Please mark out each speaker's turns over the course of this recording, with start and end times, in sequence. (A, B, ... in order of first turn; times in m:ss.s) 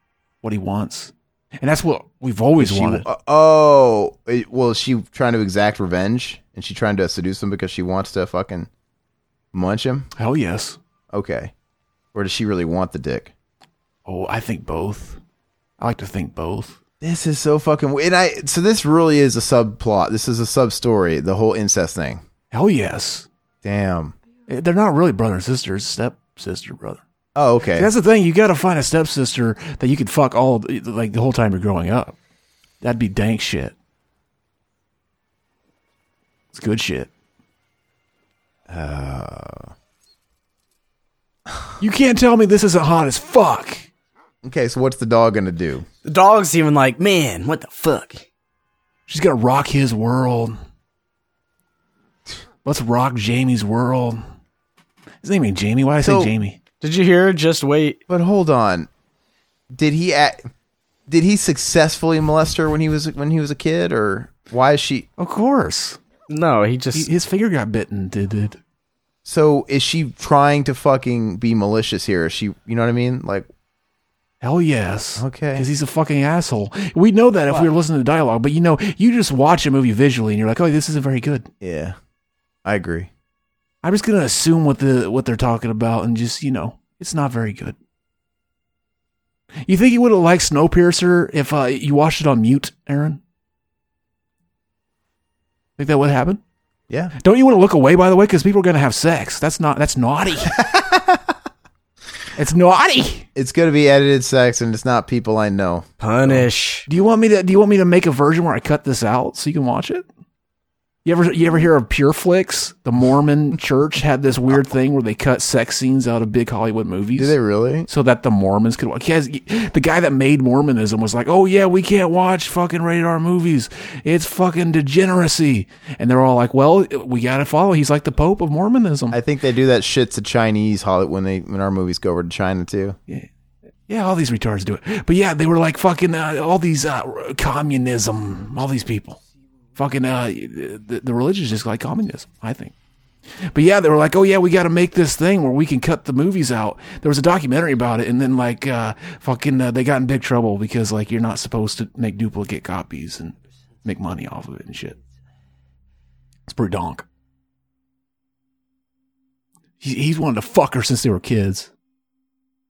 0:00.4-0:03.0 A
0:02.6-0:08.7 B
0:09.5-0:10.1 B
0:10.2-0:10.8 A
0:11.1-0:11.5 B
0:12.1-0:13.3 B
0:14.0-0:15.2 A
0:15.8-0:16.8 A
0:17.0-0:22.2 B
0:22.5-0:23.3 A
0:23.6-0:24.1 B
0:24.5-0:27.0 A
0:27.3-0:27.9 B
0:27.7-0:32.2 A
0:32.8-0:33.7 A
0:36.5-0:37.1 A
0:38.7-0:39.7 B
0:41.8-0:43.9 A
0:44.4-0:45.8 B
0:46.0-0:48.2 C
0:49.1-0:50.6 A
0:52.6-0:54.2 A
0:55.2-0:56.6 A
0:56.0-0:56.3 B
0:56.8-0:58.0 C
0:58.1-0:58.9 B
0:59.7-1:00.4 B
1:01.1-1:05.1 B
1:05.2-1:06.0 A
1:06.3-1:07.1 C
1:06.9-1:08.6 A
1:09.2-1:13.5 B
1:14.4-1:21.5 A
1:15.2-1:15.7 B
1:21.6-1:22.0 B
1:22.6-1:23.1 B
1:23.8-1:27.8 A
1:29.6-1:33.2 A
1:35.8-1:36.4 A
1:37.2-1:40.6 A
1:40.5-1:41.3 B
1:42.3-1:43.3 A
1:43.4-1:46.4 B
1:46.0-1:46.9 C
1:46.9-1:50.0 A
1:51.0-1:57.3 A
1:57.2-1:57.9 B
1:57.9-2:09.2 A
2:09.1-2:13.0 B
2:13.9-2:19.2 A
2:19.8-2:22.7 A
2:23.5-2:35.0 A
2:36.5-2:37.0 A
2:39.8-2:41.7 A